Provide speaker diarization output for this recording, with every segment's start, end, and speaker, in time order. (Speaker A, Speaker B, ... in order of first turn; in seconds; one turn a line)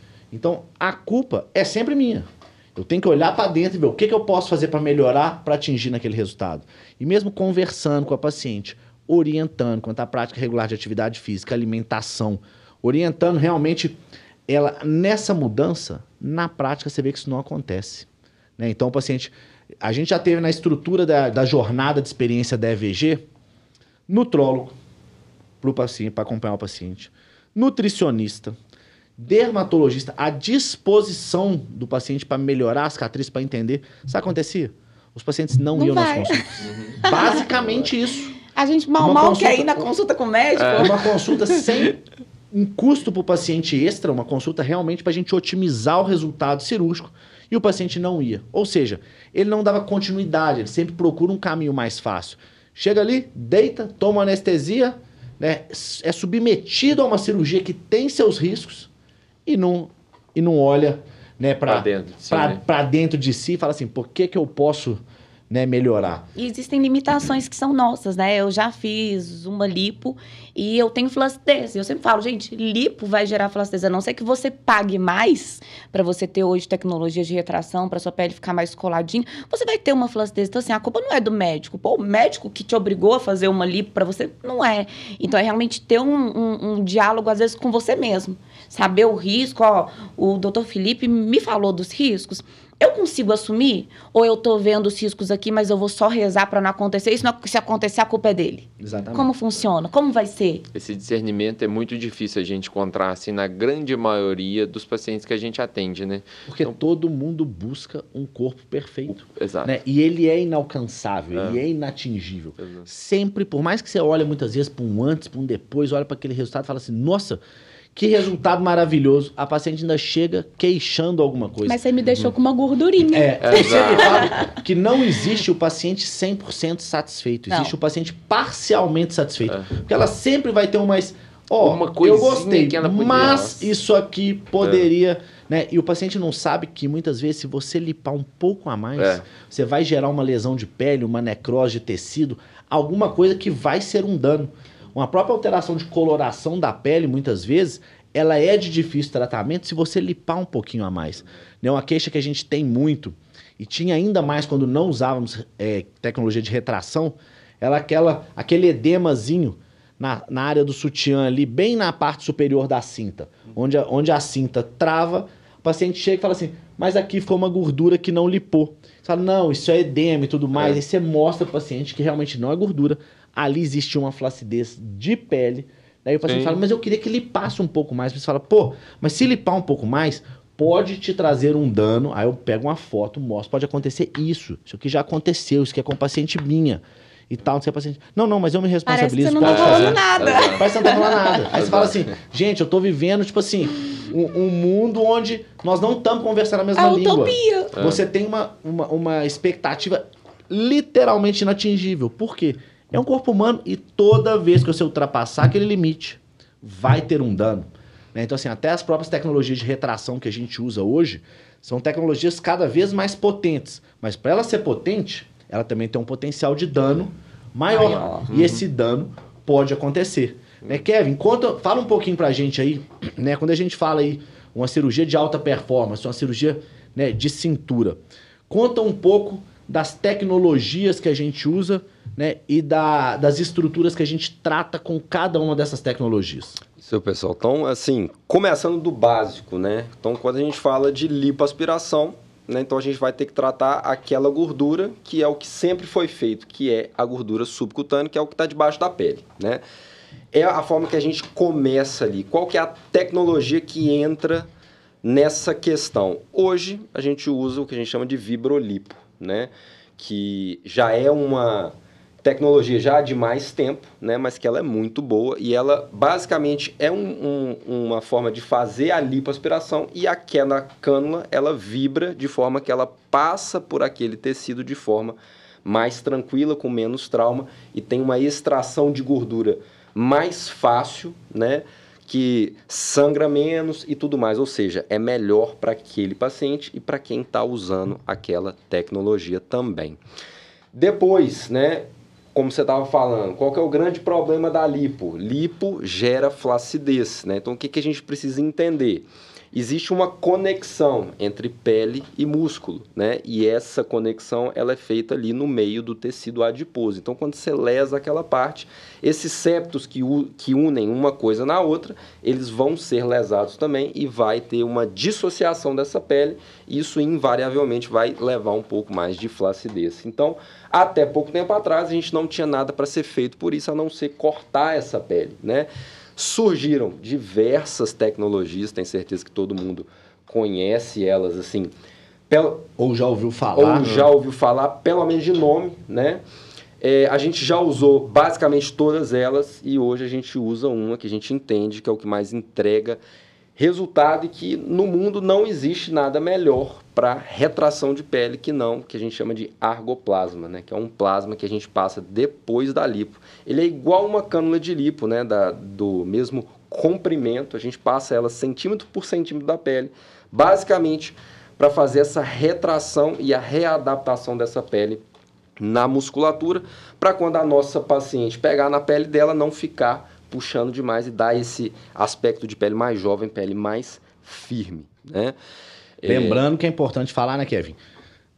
Speaker A: 0.3-13.9
Speaker A: 14.5-23.2
Speaker A: 24.1-24.7
Speaker A: 25.6-28.6
Speaker A: 29.2-38.3
Speaker B: 35.8-37.4
Speaker C: 36.6-37.0
Speaker B: 38.4-41.0
Speaker A: 39.0-39.9
Speaker C: 40.6-41.0
Speaker A: 40.7-42.0
Speaker A: 42.5-58.9
Speaker A: 59.5-66.2
Speaker C: 61.6-62.6
Speaker B: 66.3-100.7
Speaker A: 98.8-99.3
Speaker C: 100.7-106.7
Speaker A: 106.5-117.4
Speaker C: 109.1-109.7
Speaker C: 111.3-111.6
Speaker C: 112.6-112.8
Speaker A: 117.9-121.8
Speaker B: 121.6-124.5
Speaker A: 123.1-236.6
Speaker C: 123.4-124.3
Speaker C: 131.6-133.7
Speaker C: 134.6-134.9
Speaker C: 139.0-139.2
Speaker C: 176.2-176.6
Speaker B: 188.8-191.4
Speaker C: 189.4-190.7
Speaker C: 191.6-191.9
Speaker B: 196.8-197.7
Speaker B: 217.7-218.3
Speaker C: 218.3-218.6
Speaker D: 236.8-249.6
Speaker D: 250.3-254.5
Speaker D: 255.0-290.0
Speaker D: 290.7-331.7
Speaker D: 332.3-332.7
Speaker A: 332.8-334.1
Speaker D: 333.5-336.2
Speaker D: 336.8-343.0
Speaker D: 343.6-365.0
Speaker D: 365.6-375.3
Speaker C: 376.0-376.4
Speaker A: 376.1-377.8